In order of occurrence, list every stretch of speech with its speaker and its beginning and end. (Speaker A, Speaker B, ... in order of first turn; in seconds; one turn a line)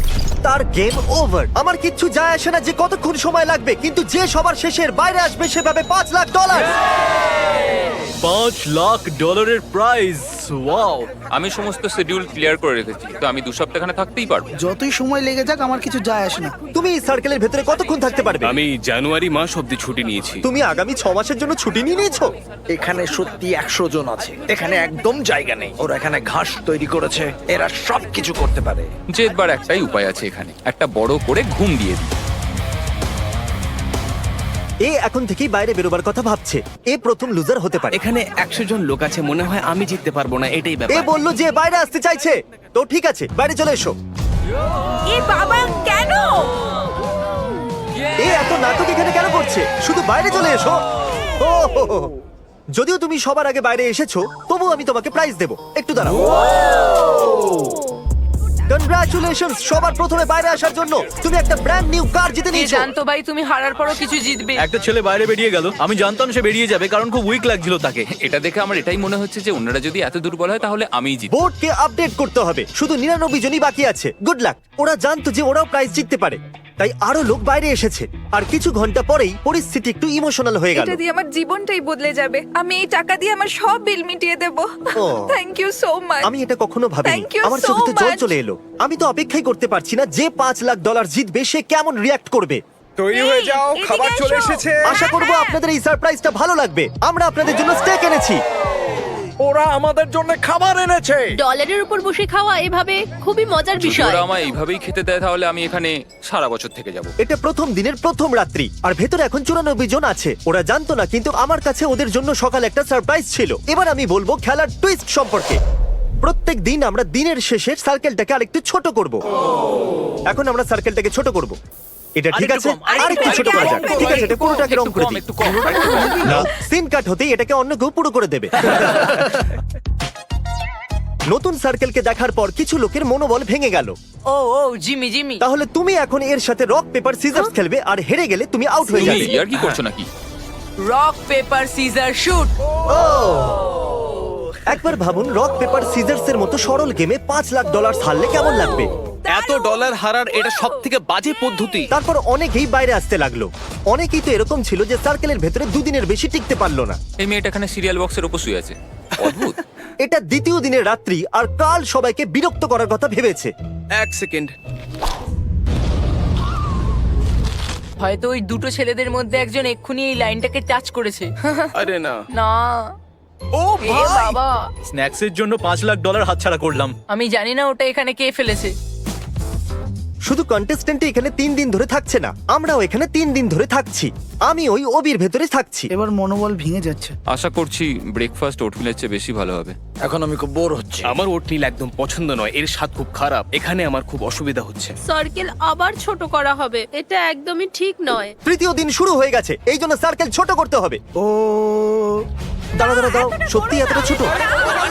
Speaker A: 0.4-6.7
Speaker B: 8.2-11.1
Speaker C: 11.3-14.5
Speaker D: 14.6-16.5
Speaker A: 16.7-18.5
Speaker E: 18.4-20.4
Speaker A: 20.4-22.3
Speaker F: 22.7-28.9
Speaker C: 29.1-32.1
Speaker A: 34.9-38.0
Speaker E: 37.9-41.1
Speaker A: 40.9-43.9
Speaker G: 45.1-46.5
Speaker A: 48.2-50.8
Speaker A: 51.4-52.1
Speaker A: 52.7-56.2
Speaker A: 58.7-62.9
Speaker H: 62.5-64.7
Speaker B: 64.6-68.1
Speaker C: 68.1-71.2
Speaker A: 71.3-81.0
Speaker G: 80.8-86.3
Speaker A: 85.0-85.2
Speaker A: 86.2-92.6
Speaker G: 87.0-88.3
Speaker F: 93.0-94.8
Speaker G: 93.1-95.4
Speaker A: 94.8-98.4
Speaker F: 99.4-101.3
Speaker I: 101.4-104.2
Speaker C: 103.8-107.1
Speaker A: 107.2-115.6
Speaker A: 116.2-119.2
Speaker A: 120.3-121.5
Speaker A: 122.2-129.3
Speaker C: 122.3-126.4
Speaker G: 122.9-124.4
Speaker A: 131.3-133.9
Speaker H: 134.3-135.4
Speaker A: 135.4-139.3
Speaker C: 138.9-140.1
Speaker H: 140.8-142.5
Speaker A: 142.9-143.6
Speaker A: 144.7-148.9
Speaker E: 149.3-151.9
Speaker A: 151.9-157.0
Speaker C: 157.2-159.6
Speaker E: 159.2-159.5
Speaker A: 160.0-163.5
Speaker E: 164.0-164.5
Speaker H: 168.0-171.7
Speaker E: 171.7-172.2
Speaker H: 172.3-172.9
Speaker E: 173.6-174.4
Speaker H: 173.8-174.6
Speaker B: 174.9-176.9
Speaker H: 177.1-178.7
Speaker A: 180.2-185.9
Speaker D: 185.9-187.1
Speaker C: 187.3-189.7
Speaker F: 190.0-191.1
Speaker E: 191.0-195.0
Speaker I: 195.1-198.3
Speaker A: 198.4-201.0
Speaker A: 202.8-204.3